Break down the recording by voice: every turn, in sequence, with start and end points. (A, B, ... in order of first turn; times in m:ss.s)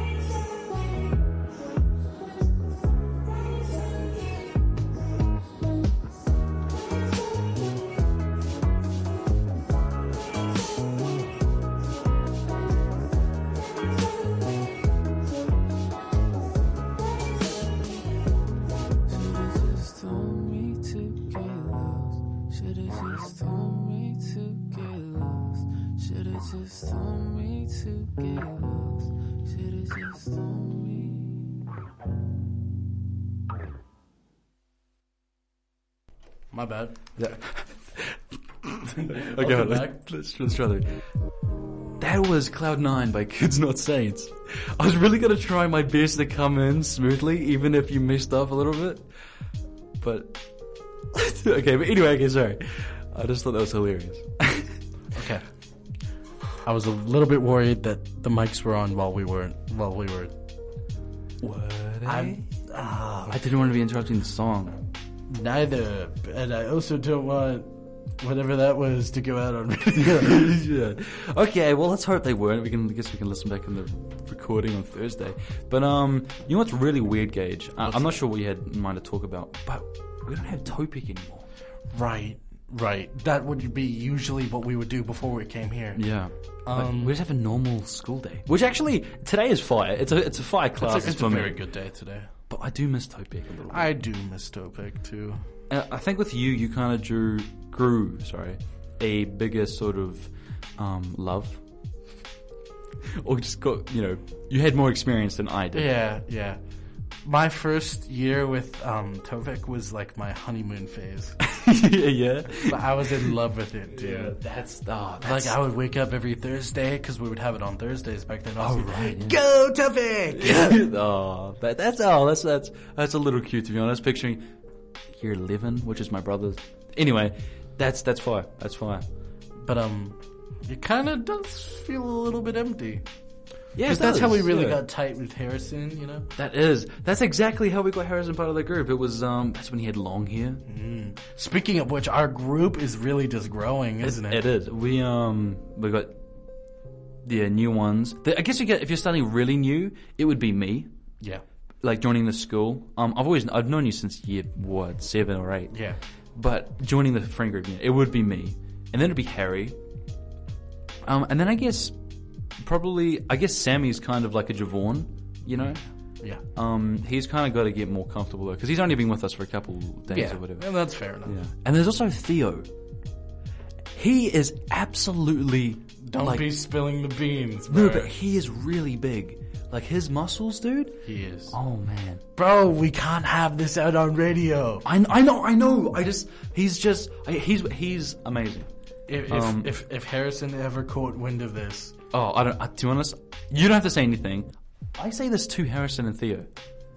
0:19.1-0:31.5 A
0:36.5-0:37.0 B
0:37.2-0:41.0 C
0:38.9-0:40.0 B
0:42.0-0:49.0 C
0:50.0-0:50.4 C
0:51.1-0:54.8 C
0:55.1-0:55.4 B
0:56.6-1:00.3 B
1:01.4-1:02.4 C
1:02.0-1:03.4 B
1:03.3-1:04.8 C
1:05.3-1:10.5 B
1:10.0-1:21.5 C
1:17.8-1:18.2 B
1:21.9-1:26.0 B
1:26.0-1:31.6 C
1:26.6-1:27.2 B
1:30.8-1:32.3 B
1:32.5-1:33.9 C
1:33.7-1:35.4 B
1:35.7-1:41.6 C
1:43.0-1:45.9 C
1:45.7-1:46.6 B
1:47.2-1:51.4 B
1:51.4-1:53.3 C
1:52.6-1:54.4 B
1:53.9-1:55.6 C
1:55.2-2:00.9 B
1:58.6-1:59.4 C
2:00.3-2:04.5 C
2:05.1-2:09.0 C
2:09.6-2:13.0 B
2:13.8-2:14.8 C
2:13.8-2:16.3 B
2:16.4-2:20.6 C
2:20.7-2:24.4 B
2:24.0-2:26.2 C
2:27.2-2:30.9 C
2:31.8-2:35.8 C
2:35.7-2:36.0 B
2:36.4-2:39.8 C
2:41.0-2:42.0 C
2:42.6-2:45.8 C
2:46.5-2:50.7 C
2:50.1-2:51.4 B
2:51.2-2:52.7 C
2:54.0-2:56.5 C
2:56.0-2:58.1 B
2:57.7-3:02.2 C
3:01.0-3:01.6 B
3:02.4-3:04.8 B
3:04.8-3:08.7 C
3:09.1-3:12.0 B
3:09.3-3:09.7 C
3:12.1-3:16.5 C